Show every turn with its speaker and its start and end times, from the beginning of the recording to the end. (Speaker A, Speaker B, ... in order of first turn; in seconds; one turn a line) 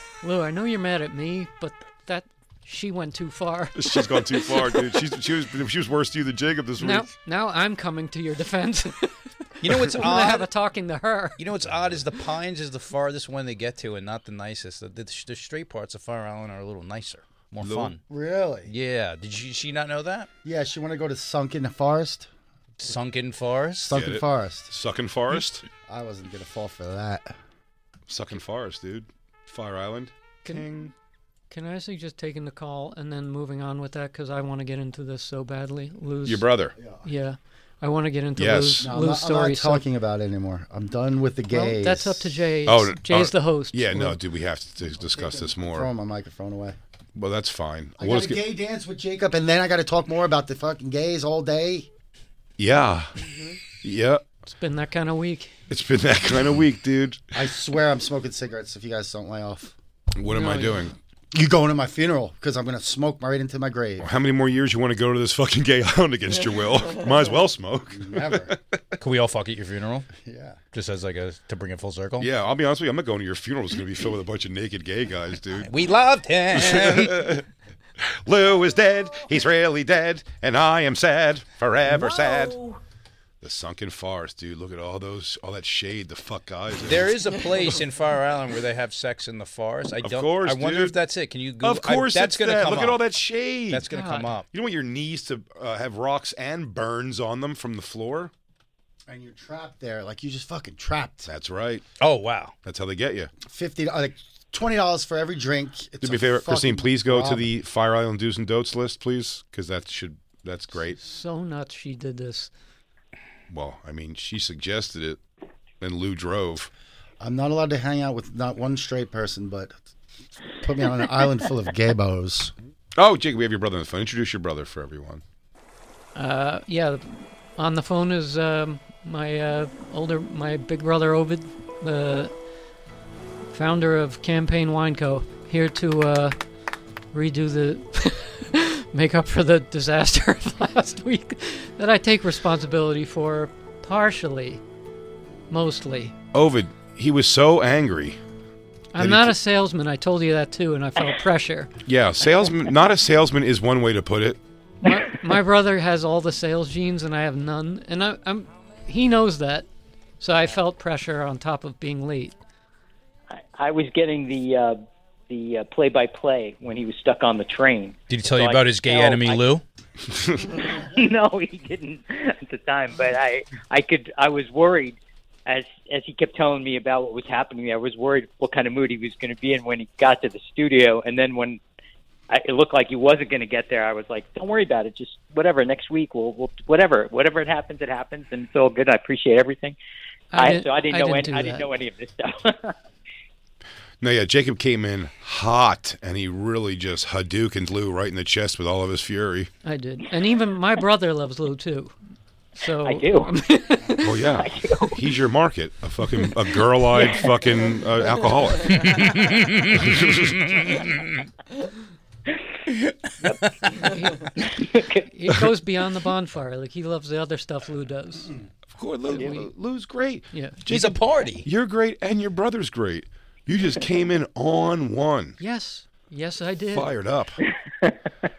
Speaker A: 0.2-4.8
Speaker B: 3.7-7.1
Speaker A: 6.8-11.4
Speaker C: 9.6-10.5
Speaker C: 11.4-18.0
Speaker B: 17.6-17.9
Speaker D: 18.1-18.7
Speaker C: 18.6-20.3
Speaker D: 20.4-22.3
Speaker C: 22.8-23.9
Speaker D: 23.8-24.7
Speaker B: 23.9-25.6
Speaker D: 25.9-27.3
Speaker B: 28.1-30.9
Speaker A: 31.5-39.8
Speaker B: 36.2-36.7
Speaker D: 36.8-37.1
Speaker B: 38.4-38.9
Speaker D: 38.8-42.4
Speaker A: 41.5-44.2
Speaker B: 42.6-45.9
Speaker D: 45.0-46.8
Speaker B: 47.1-48.4
Speaker D: 48.0-51.9
Speaker B: 52.6-53.1
Speaker B: 53.8-54.2
Speaker A: 54.5-55.5
Speaker B: 55.7-57.2
Speaker D: 57.3-59.7
Speaker B: 60.1-60.9
Speaker A: 60.3-60.9
Speaker D: 61.3-64.1
Speaker B: 64.0-68.8
Speaker D: 67.9-68.5
Speaker C: 69.0-70.1
Speaker D: 70.2-70.6
Speaker C: 70.7-72.3
Speaker B: 72.2-75.7
Speaker C: 75.6-77.3
Speaker B: 76.5-77.4
Speaker B: 78.2-82.6
Speaker B: 83.4-87.2
Speaker C: 86.8-93.0
Speaker B: 90.0-91.0
Speaker B: 91.6-93.8
Speaker C: 93.7-94.5
Speaker A: 93.9-94.3
Speaker B: 94.5-98.3
Speaker D: 99.1-101.3
Speaker B: 101.2-101.8
Speaker C: 102.0-102.5
Speaker B: 102.6-103.3
Speaker D: 103.4-107.5
Speaker B: 106.0-111.0
Speaker A: 110.7-112.5
Speaker B: 113.5-115.2
Speaker B: 115.8-116.7
Speaker D: 117.2-119.8
Speaker D: 120.6-122.5
Speaker B: 123.0-125.2
Speaker A: 126.2-132.3
Speaker A: 133.5-136.3
Speaker A: 137.1-144.6
Speaker A: 145.5-146.1
Speaker B: 146.3-148.2
Speaker A: 148.9-151.7
Speaker B: 149.0-149.3
Speaker B: 151.8-154.4
Speaker A: 154.8-159.7
Speaker A: 160.2-162.3
Speaker E: 163.6-169.5
Speaker C: 168.1-169.6
Speaker E: 170.5-181.6
Speaker E: 182.3-189.8
Speaker A: 190.3-191.7
Speaker E: 190.3-192.7
Speaker B: 194.0-199.5
Speaker A: 199.6-201.9
Speaker A: 202.5-204.2
Speaker E: 202.8-203.3
Speaker B: 204.0-209.1
Speaker E: 204.3-205.0
Speaker C: 208.8-210.9
Speaker B: 209.7-210.5
Speaker C: 213.4-213.7
Speaker A: 213.8-214.5
Speaker E: 214.4-215.0
Speaker A: 215.1-218.3
Speaker B: 218.7-225.4
Speaker A: 219.1-219.5
Speaker C: 220.7-221.5
Speaker A: 225.4-226.9
Speaker B: 226.7-227.4